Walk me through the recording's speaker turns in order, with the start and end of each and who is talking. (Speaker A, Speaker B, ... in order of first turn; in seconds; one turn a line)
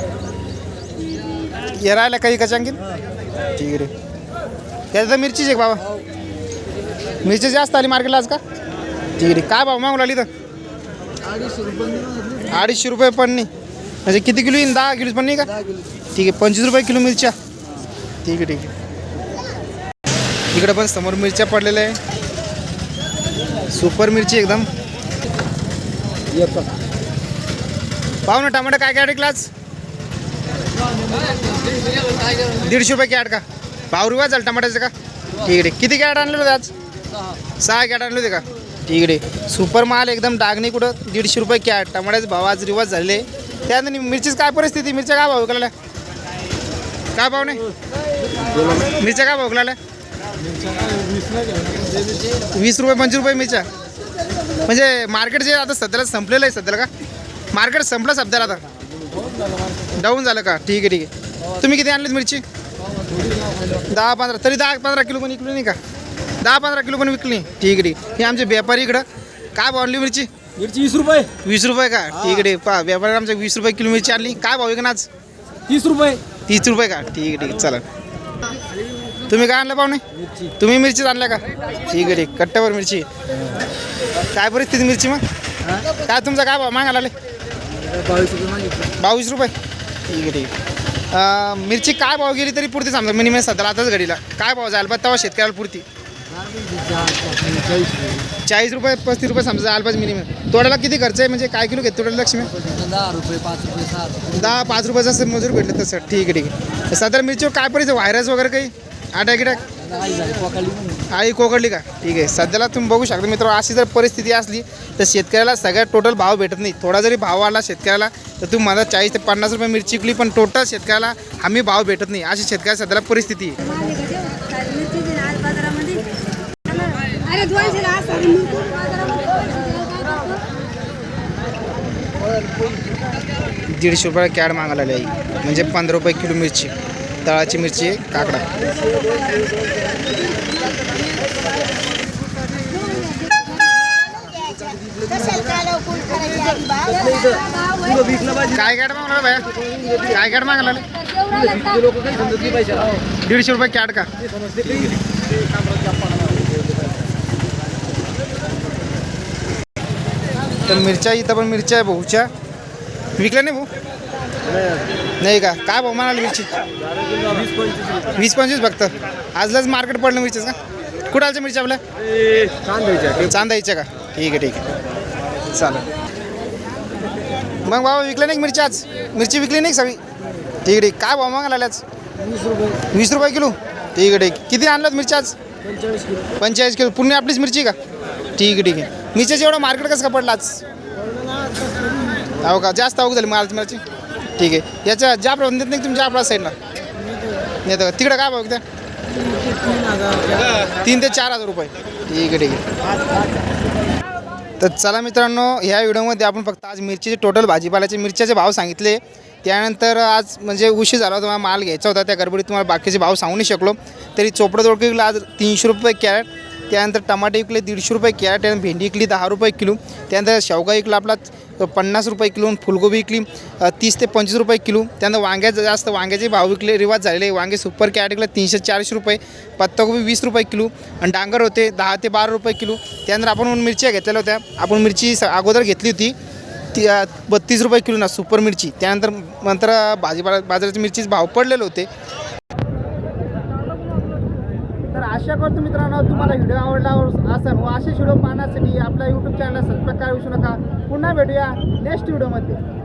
Speaker A: 1.7-2.8
Speaker A: 3.6-3.9
Speaker A: 4.9-5.8
Speaker A: 7.2-8.4
Speaker A: 9.2-10.3
Speaker B: 11.3-12.2
Speaker A: 12.4-13.5
Speaker A: 14.1-15.5
Speaker A: 16.1-17.4
Speaker A: 18.2-18.7
Speaker A: 20.5-22.0
Speaker A: 23.7-24.7
Speaker A: 28.3-29.5
Speaker A: 32.6-36.7
Speaker A: 37.6-45.7
Speaker A: 47.1-47.6
Speaker A: 49.0-49.8
Speaker B: 50.5-52.3
Speaker A: 52.5-53.7
Speaker A: 54.7-56.9
Speaker A: 57.5-58.6
Speaker A: 60.0-62.4
Speaker B: 63.2-63.5
Speaker A: 63.9-65.8
Speaker A: 66.4-70.3
Speaker B: 70.6-71.4
Speaker A: 71.4-75.1
Speaker B: 75.7-76.2
Speaker A: 76.5-77.8
Speaker A: 79.3-80.0
Speaker A: 80.6-83.1
Speaker A: 84.3-85.2
Speaker A: 86.0-87.1
Speaker B: 87.9-88.9
Speaker A: 89.0-89.5
Speaker A: 90.1-90.5
Speaker A: 91.1-95.8
Speaker B: 96.5-98.2
Speaker A: 98.5-102.5
Speaker B: 102.6-104.3
Speaker A: 104.3-109.6
Speaker B: 109.8-111.0
Speaker A: 111.1-123.7
Speaker C: 123.7-126.1
Speaker C: 126.7-130.5
Speaker A: 133.7-136.7
Speaker A: 137.2-138.5
Speaker C: 140.1-141.2
Speaker C: 142.7-143.6
Speaker C: 145.6-148.3
Speaker A: 148.5-149.5
Speaker A: 150.0-151.0
Speaker C: 151.0-152.8
Speaker B: 152.5-152.8
Speaker A: 153.2-154.1
Speaker B: 154.5-154.9
Speaker A: 160.7-162.3
Speaker A: 163.2-163.7
Speaker A: 165.2-166.5
Speaker B: 167.2-167.8
Speaker A: 168.2-170.6
Speaker A: 171.1-171.8
Speaker B: 172.7-173.1
Speaker A: 173.2-174.7
Speaker A: 175.5-175.9
Speaker A: 177.7-180.0
Speaker A: 180.6-181.8
Speaker A: 182.9-185.3
Speaker A: 186.4-187.8
Speaker A: 188.4-190.6
Speaker B: 191.4-191.8
Speaker A: 192.4-193.8
Speaker A: 194.4-196.6
Speaker A: 197.7-198.6
Speaker B: 199.4-200.6
Speaker A: 200.7-202.6
Speaker A: 204.6-236.2
Speaker A: 236.7-241.9
Speaker A: 244.9-252.6